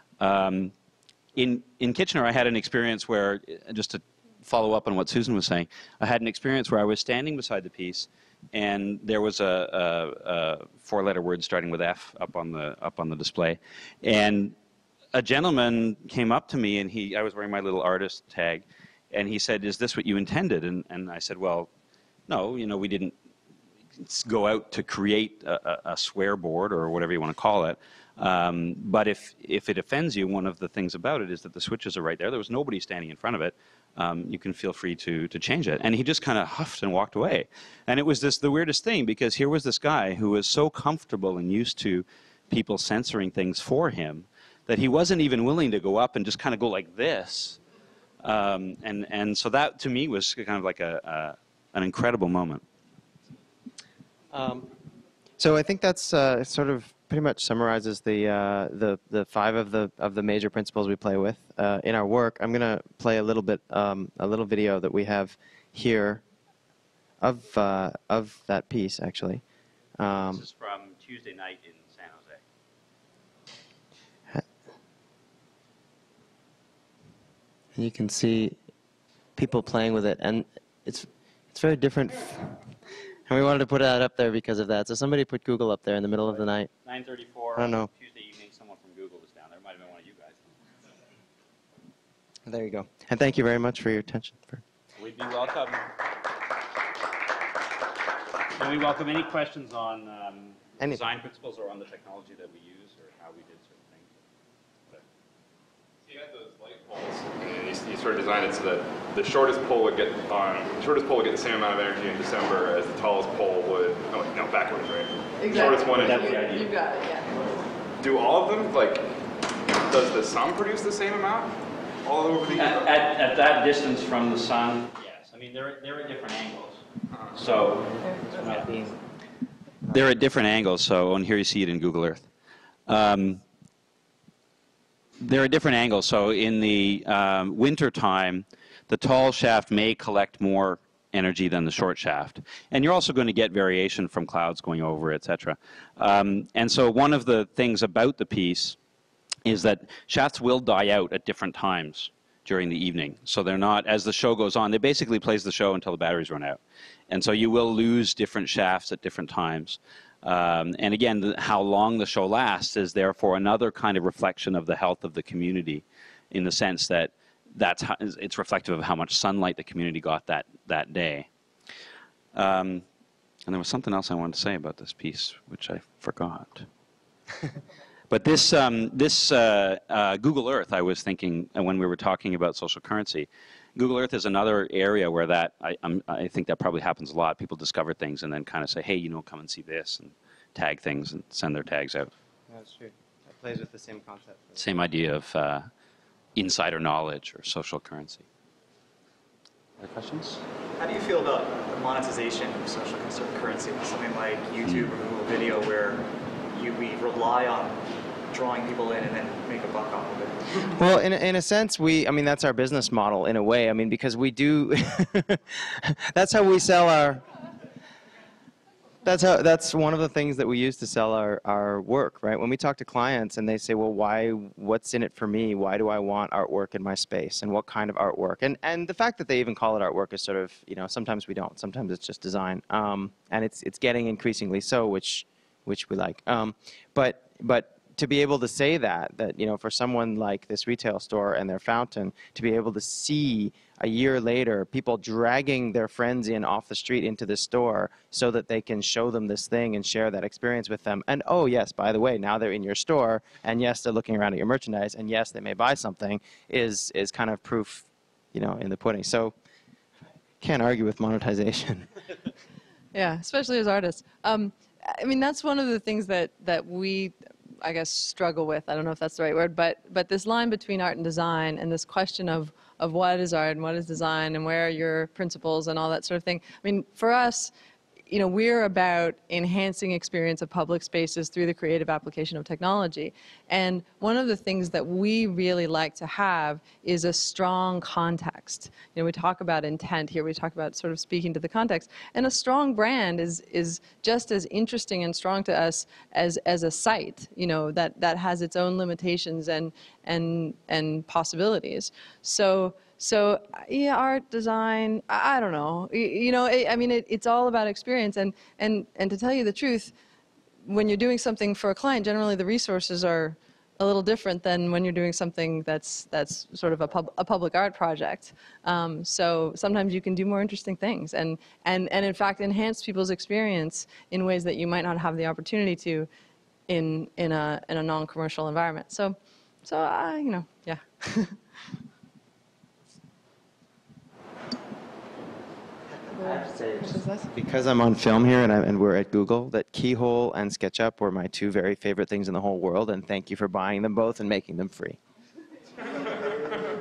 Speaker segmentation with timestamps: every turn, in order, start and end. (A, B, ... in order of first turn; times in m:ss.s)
0:00.2-0:00.7 A
0:01.4-0:14.6 A
0:15.1-0:21.7 A
0:22.3-0:23.2 A
0:24.0-0:47.6 A
0:48.2-0:52.6 A
0:54.3-0:54.8 B
0:55.4-1:06.2 B
1:07.2-1:09.4 B
1:10.0-1:10.4 B
1:10.3-1:12.4 A
1:17.8-1:18.6 B
1:19.4-1:22.7 B
1:23.3-1:26.7 B
1:26.8-1:30.6 A
1:27.6-1:27.9 B
1:32.5-1:34.6 B
1:35.0-1:36.0 A
1:38.6-1:44.1 A
1:46.0-1:56.5 C
1:55.4-1:57.4 D
1:55.9-1:56.7 A
1:58.0-2:02.9 C
2:02.6-2:08.8 A
2:09.9-2:12.3 A
2:12.9-2:13.4 A
2:15.2-2:28.8 A
2:29.4-2:51.3 A
2:52.3-2:52.8 A
2:53.5-2:56.7 A
2:58.1-3:12.1 A
3:12.5-3:14.7 B
3:14.6-3:15.7 A
3:16.4-3:18.3 A
3:19.8-3:20.4 A
3:20.8-3:27.8 E
3:28.3-3:30.6 E
3:30.7-3:37.2 B
3:39.0-4:19.3 B
4:20.4-4:21.9 B
4:22.9-4:37.5 D
4:38.1-5:09.9 D
5:10.6-5:26.1 D
5:26.7-5:31.4 D
5:36.1-5:37.3 D
5:37.3-5:45.0 B